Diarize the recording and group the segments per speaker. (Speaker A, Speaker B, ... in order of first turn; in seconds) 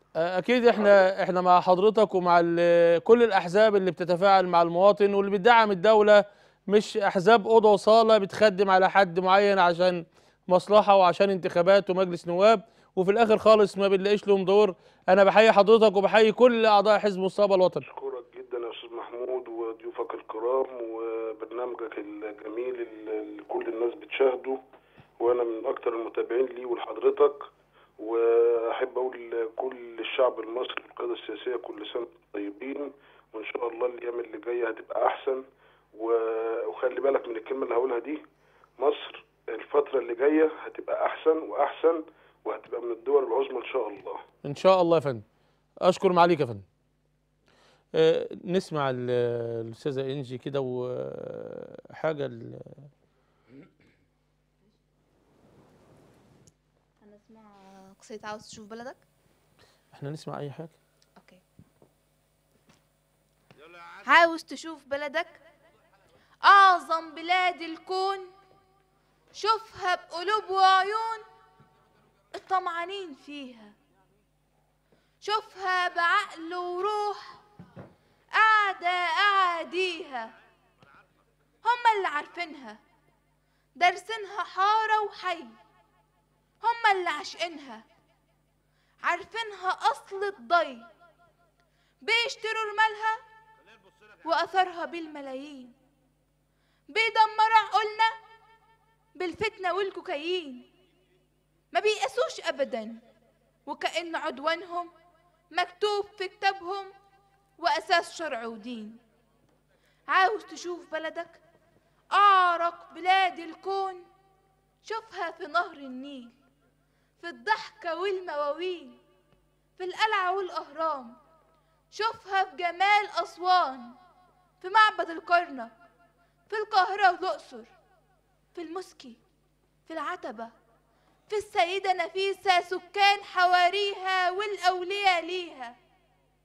Speaker A: 0.2-17.9, 44.4-45.2, 45.8-46.6, 48.0-52.9, 59.9-60.8
Speaker B: 17.9-24.6, 25.2-27.5, 28.0-38.2, 38.8-44.2
Speaker C: 57.0-59.0, 61.2-61.4, 64.0-65.4, 66.4-68.3, 69.3-71.2, 72.3-73.8, 75.2-77.4, 78.3-80.3, 81.6-82.8, 83.8-85.6, 86.6-87.8, 89.0-90.9, 92.0-93.2, 94.2-95.8, 96.9-98.1, 99.2-100.7, 101.7-103.0, 103.7-104.9, 105.5-106.9, 107.6-109.0, 110.1-111.4, 112.1-114.1, 114.8-116.4, 117.2-119.0, 119.8-121.2, 121.9-124.0, 124.6-125.8, 126.5-127.7, 128.5-129.2, 129.9-130.5, 131.3-135.8